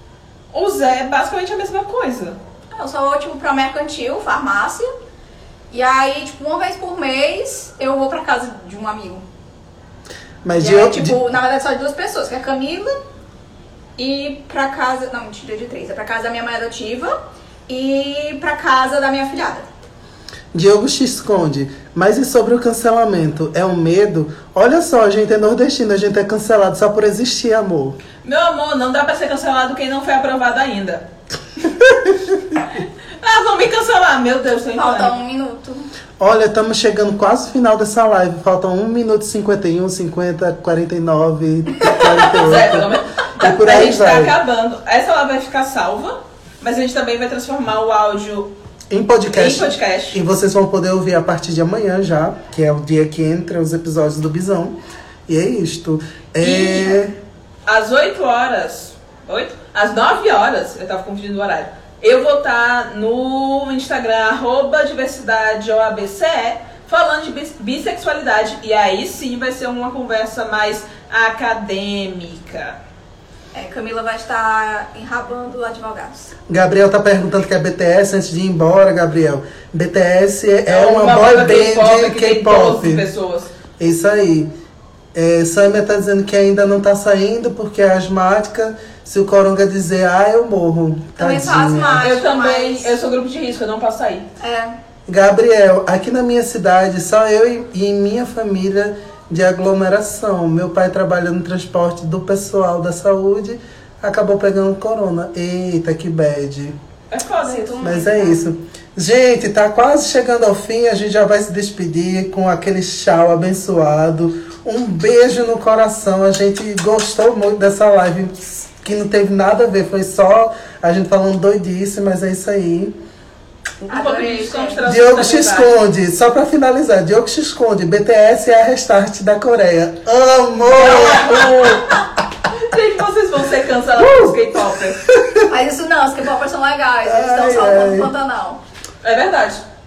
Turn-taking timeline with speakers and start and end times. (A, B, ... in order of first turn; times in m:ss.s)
0:00.5-0:02.4 A
0:02.8-0:04.9 B
0:05.7-0:09.2 B
0:10.4-0:11.2 C
0:10.6-0:13.0 B
0:14.0-0:17.1 B
0:17.7-0:19.7 B
0:20.5-0:28.0 C
0:28.2-0:31.1 A
0:32.8-0:35.1 A
0:34.8-0:35.9 B
0:36.2-0:44.4 C
0:42.2-0:48.5 A
0:48.9-0:57.1 C
0:49.3-0:50.2 A
0:56.4-0:57.0 A
0:57.7-1:12.8 A
1:13.5-1:16.3 B
1:16.5-1:23.1 C
1:20.7-1:23.5 A
1:23.8-1:24.5 C
1:25.1-1:32.0 C
1:31.2-1:32.9 B
1:32.0-1:34.3 A
1:34.4-1:34.8 B
1:35.1-1:46.8 C
1:47.1-1:47.8 A
1:47.4-1:48.5 B
1:47.8-2:03.0 C
2:03.9-2:04.8 B
2:03.9-2:05.7 A
2:04.9-2:11.9 C
2:10.7-2:12.0 A
2:12.5-2:15.0 A
2:14.0-2:14.4 C
2:15.0-2:15.5 C
2:15.4-2:18.6 B
2:17.0-2:18.1 C
2:19.0-2:19.6 A